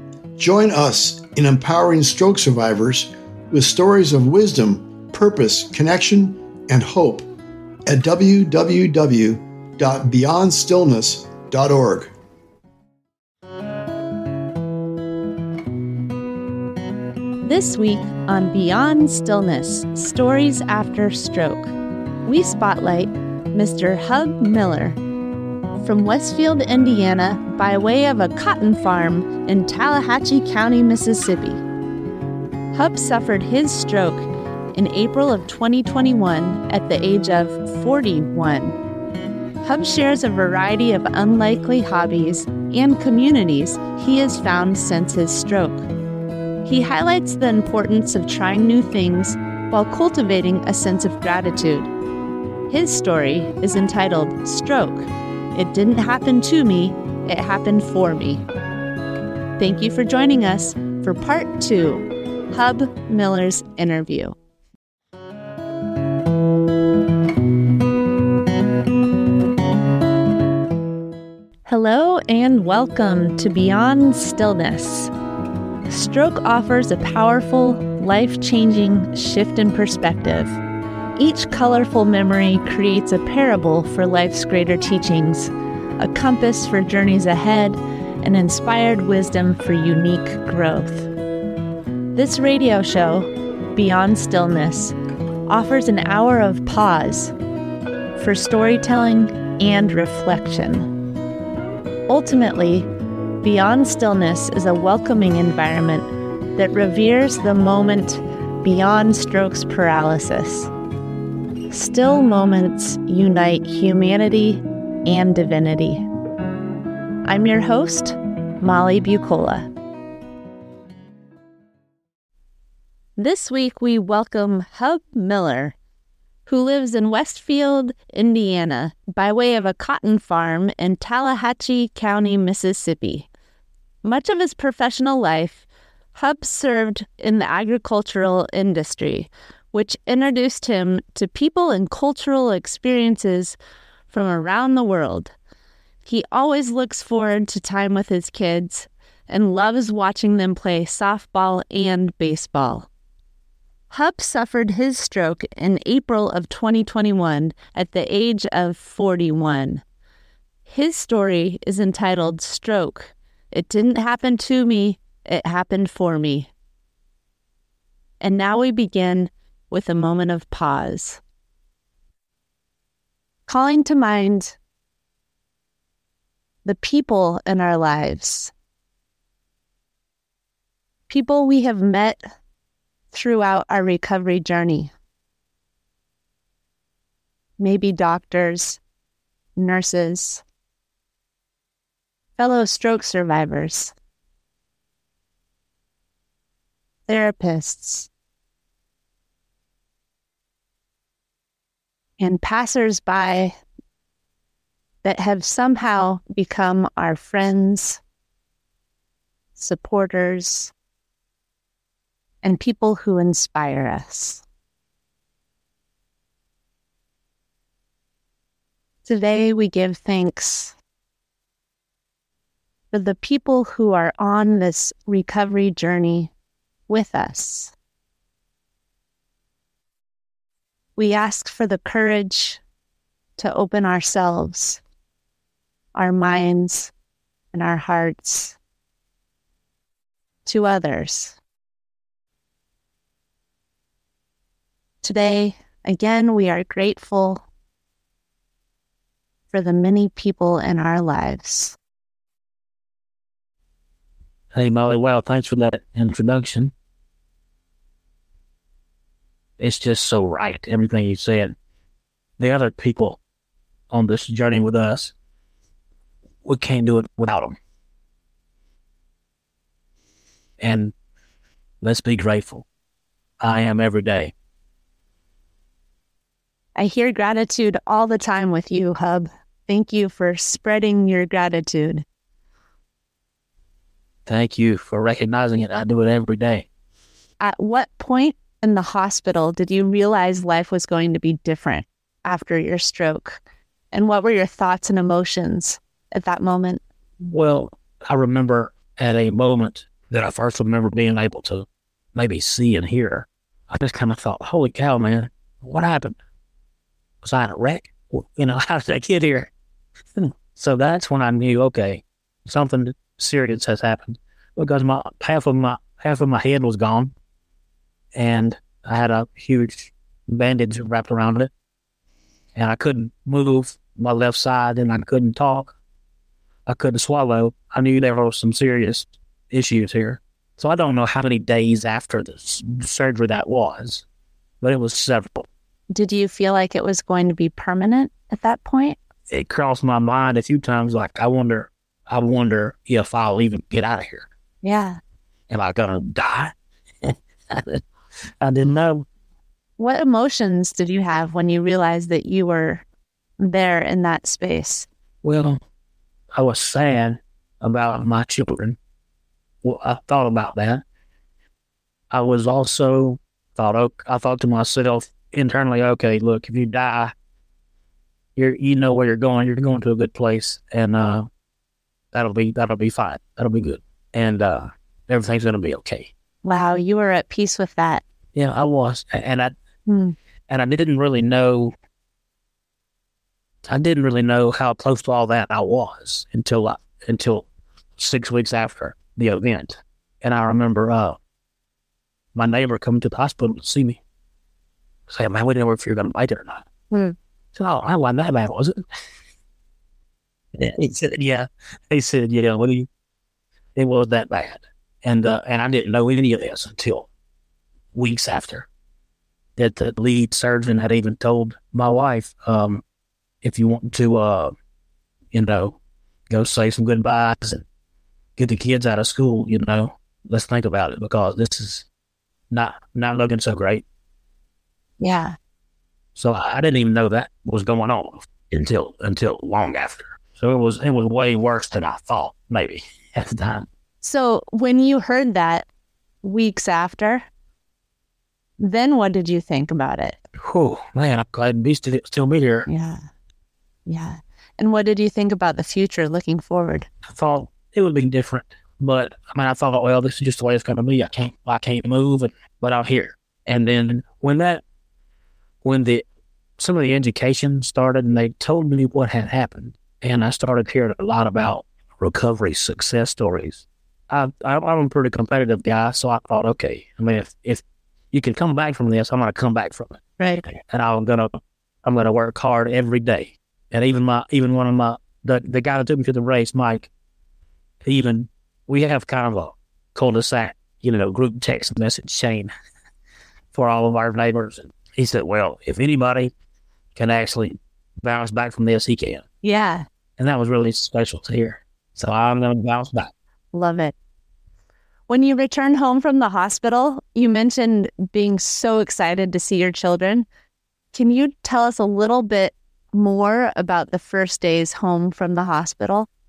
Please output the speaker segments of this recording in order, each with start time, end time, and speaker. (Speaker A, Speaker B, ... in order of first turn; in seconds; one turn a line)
Speaker A: 0.4-7.3
Speaker A: 7.9-12.1
Speaker B: 17.4-21.7
Speaker B: 22.3-25.0
Speaker B: 25.8-31.6
Speaker B: 32.7-38.8
Speaker B: 39.6-45.9
Speaker B: 46.6-51.9
Speaker B: 52.7-58.5
Speaker B: 59.6-64.4
Speaker B: 71.7-75.1
Speaker B: 75.9-80.6
Speaker B: 81.2-91.1
Speaker B: 92.2-95.0
Speaker B: 95.5-97.3
Speaker B: 98.2-100.9
Speaker B: 102.1-102.9
Speaker B: 103.4-110.7
Speaker B: 111.7-116.0
Speaker B: 117.3-119.7
Speaker B: 123.2-125.8
Speaker B: 126.5-133.3
Speaker B: 134.0-143.6
Speaker B: 144.1-145.3
Speaker B: 146.0-152.9
Speaker B: 153.9-159.8
Speaker B: 160.7-166.5
Speaker B: 168.2-171.2
Speaker B: 173.5-174.6
Speaker B: 176.7-178.5
Speaker B: 181.1-182.2
Speaker B: 183.1-184.9
Speaker B: 187.6-188.8
Speaker B: 189.6-190.4
Speaker B: 192.4-193.9
Speaker B: 197.1-198.1
Speaker B: 202.2-203.6
Speaker B: 205.0-208.0
Speaker B: 209.6-210.7
Speaker B: 212.4-214.4
Speaker B: 219.1-220.8
Speaker B: 222.9-226.3
Speaker B: 226.9-227.7
Speaker B: 231.0-232.6
Speaker B: 233.4-234.8
Speaker B: 235.9-236.9
Speaker B: 237.5-238.6
Speaker B: 240.4-241.4
Speaker B: 245.0-247.4
Speaker B: 249.5-251.8
Speaker C: 254.5-256.7
Speaker C: 259.6-261.5
Speaker C: 262.4-263.2
Speaker C: 263.9-265.1
Speaker C: 266.4-267.6
Speaker C: 270.6-270.9
Speaker C: 271.8-272.7
Speaker C: 273.4-274.3
Speaker B: 276.8-282.1
Speaker C: 284.3-286.7
Speaker B: 287.4-293.4
Speaker B: 293.9-296.8
Speaker C: 297.2-306.2
Speaker C: 307.2-309.5
Speaker C: 310.2-317.1
Speaker C: 318.1-321.5
Speaker C: 322.6-325.8
Speaker C: 326.7-334.0
Speaker C: 334.6-335.5
Speaker B: 335.9-339.0
Speaker C: 339.3-344.3
Speaker B: 344.6-345.0
Speaker C: 345.5-347.8
Speaker C: 348.4-349.1
Speaker B: 349.8-352.8
Speaker B: 353.4-354.9
Speaker C: 355.2-355.6
Speaker C: 356.3-358.8
Speaker C: 359.6-360.8
Speaker C: 362.1-367.1
Speaker C: 368.4-371.3
Speaker C: 372.1-376.1
Speaker B: 376.4-378.0
Speaker C: 378.4-379.6
Speaker B: 379.9-380.1
Speaker C: 380.5-381.7
Speaker C: 383.6-387.5
Speaker C: 388.0-391.2
Speaker C: 392.4-394.0
Speaker C: 395.1-396.7
Speaker B: 396.9-397.2
Speaker C: 397.6-398.8
Speaker C: 400.6-402.9
Speaker C: 403.8-407.1
Speaker C: 407.9-408.7
Speaker C: 409.6-412.8
Speaker C: 413.4-414.5
Speaker C: 415.3-415.8
Speaker C: 416.3-417.6
Speaker C: 418.4-421.9
Speaker C: 422.5-423.9
Speaker B: 425.0-425.4
Speaker C: 426.2-433.7
Speaker B: 434.0-435.7
Speaker B: 436.2-437.3
Speaker B: 438.6-440.2
Speaker C: 440.4-442.7
Speaker B: 442.7-443.0
Speaker B: 443.9-446.9
Speaker C: 447.1-454.6
Speaker C: 455.6-456.0
Speaker C: 456.6-476.9
Speaker B: 470.2-470.5
Speaker C: 477.8-482.5
Speaker C: 483.5-486.3
Speaker C: 486.9-489.2
Speaker B: 489.4-489.9
Speaker C: 490.2-493.1
Speaker B: 493.5-493.9
Speaker B: 495.1-500.3
Speaker B: 500.9-506.1